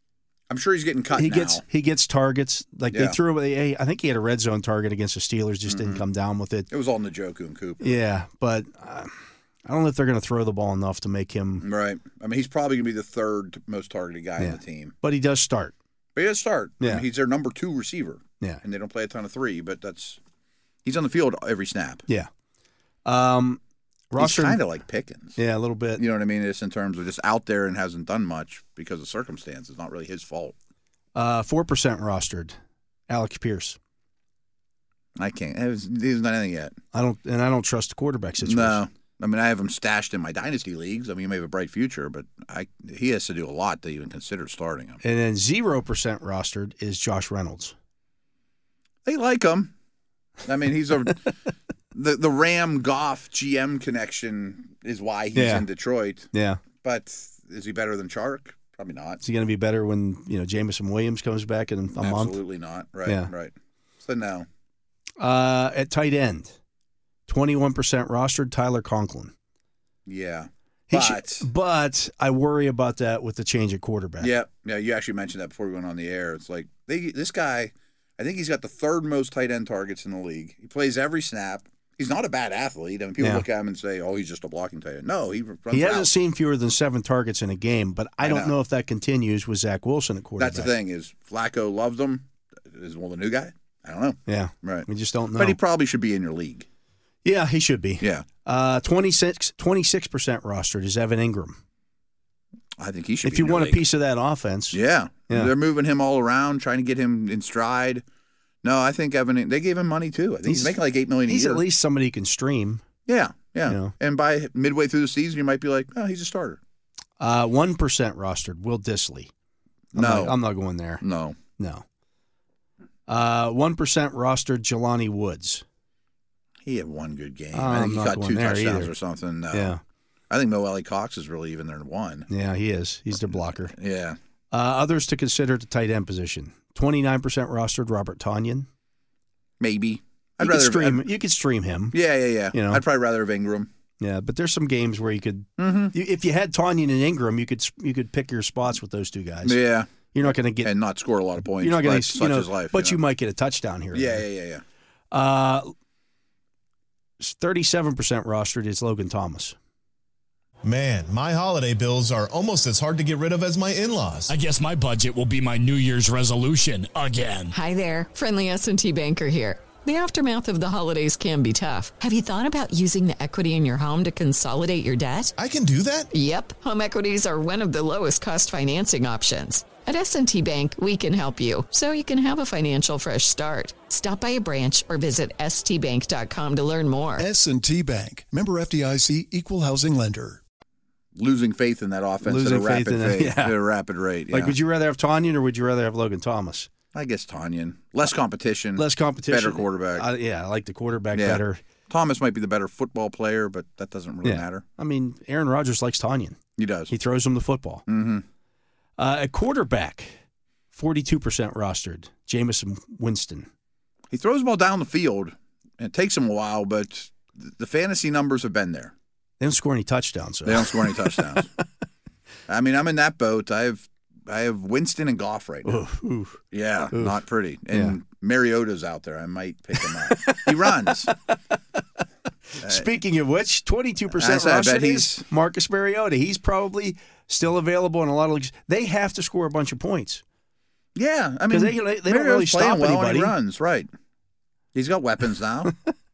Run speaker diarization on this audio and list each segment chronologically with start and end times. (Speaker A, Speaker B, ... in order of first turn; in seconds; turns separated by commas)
Speaker A: 0.5-1.6, Speaker B: 1.1-6.7, Speaker A: 2.9-3.2, Speaker A: 5.7-6.0, Speaker A: 6.7-8.0, Speaker B: 7.8-11.6, Speaker A: 11.6-14.9, Speaker B: 14.4-15.7, Speaker A: 16.1-20.2, Speaker B: 16.8-17.1, Speaker A: 20.8-22.1, Speaker B: 23.1-23.6, Speaker B: 24.1-24.6, Speaker A: 24.2-25.4, Speaker B: 25.4-26.0, Speaker A: 26.0-30.6, Speaker B: 31.1-32.6, Speaker B: 33.1-33.8, Speaker A: 35.2-36.8, Speaker B: 36.9-38.8, Speaker A: 38.4-45.0, Speaker B: 45.0-47.8, Speaker A: 49.1-49.7, Speaker A: 50.4-51.3, Speaker A: 51.9-59.2, Speaker B: 55.4-55.7, Speaker B: 56.3-56.6, Speaker B: 59.2-62.4, Speaker A: 62.0-64.5, Speaker B: 63.0-63.3, Speaker B: 65.2-66.6, Speaker B: 67.3-69.3, Speaker A: 70.1-71.5, Speaker B: 70.9-74.3, Speaker A: 74.2-86.1, Speaker B: 83.2-83.5, Speaker B: 85.7-90.8, Speaker A: 88.2-88.5, Speaker A: 90.4-96.7, Speaker B: 94.3-95.6, Speaker B: 97.2-101.6, Speaker A: 98.0-98.2, Speaker A: 102.8-103.8, Speaker B: 103.2-104.8, Speaker A: 104.7-108.0, Speaker A: 108.6-111.6, Speaker B: 110.5-112.8, Speaker A: 113.1-116.6, Speaker B: 113.7-114.0, Speaker B: 117.2-119.3, Speaker A: 119.9-120.4, Speaker B: 119.9-121.0, Speaker A: 121.0-121.4, Speaker B: 121.6-121.8, Speaker B: 123.1-125.6, Speaker A: 126.6-129.8, Speaker B: 127.5-128.9, Speaker B: 129.5-129.8, Speaker A: 130.3-132.3, Speaker B: 132.3-133.7, Speaker A: 133.3-134.2, Speaker B: 134.5-138.7, Speaker A: 139.6-141.1, Speaker B: 140.4-142.0, Speaker A: 141.9-143.7, Speaker B: 142.5-142.8, Speaker B: 144.0-149.6, Speaker A: 145.6-145.9, Speaker A: 149.4-153.0, Speaker B: 150.1-150.7, Speaker B: 151.6-154.2, Speaker A: 153.9-154.6, Speaker B: 155.1-155.7, Speaker B: 157.2-159.6, Speaker C: 160.6-164.3, Speaker D: 164.3-167.6, Speaker E: 167.5-175.3, Speaker C: 175.4-176.1, Speaker E: 176.1-187.2, Speaker F: 187.2-190.4, Speaker A: 191.1-194.6, Speaker B: 192.2-193.6, Speaker B: 194.3-196.7, Speaker A: 196.9-200.1, Speaker B: 198.8-201.6, Speaker A: 201.1-204.6, Speaker B: 204.2-206.4, Speaker A: 206.6-206.9, Speaker B: 206.9-207.9, Speaker A: 207.9-208.2, Speaker B: 209.0-210.1, Speaker B: 210.7-213.5, Speaker A: 214.1-218.9, Speaker B: 219.4-221.2, Speaker A: 220.4-221.5, Speaker A: 222.5-225.9, Speaker B: 225.7-226.4, Speaker A: 226.5-231.1, Speaker B: 226.9-227.2, Speaker B: 227.7-228.0, Speaker B: 229.8-231.3, Speaker B: 232.5-240.2, Speaker A: 232.6-232.9, Speaker A: 234.1-235.2, Speaker A: 240.9-243.9, Speaker B: 241.5-243.3, Speaker A: 244.7-245.7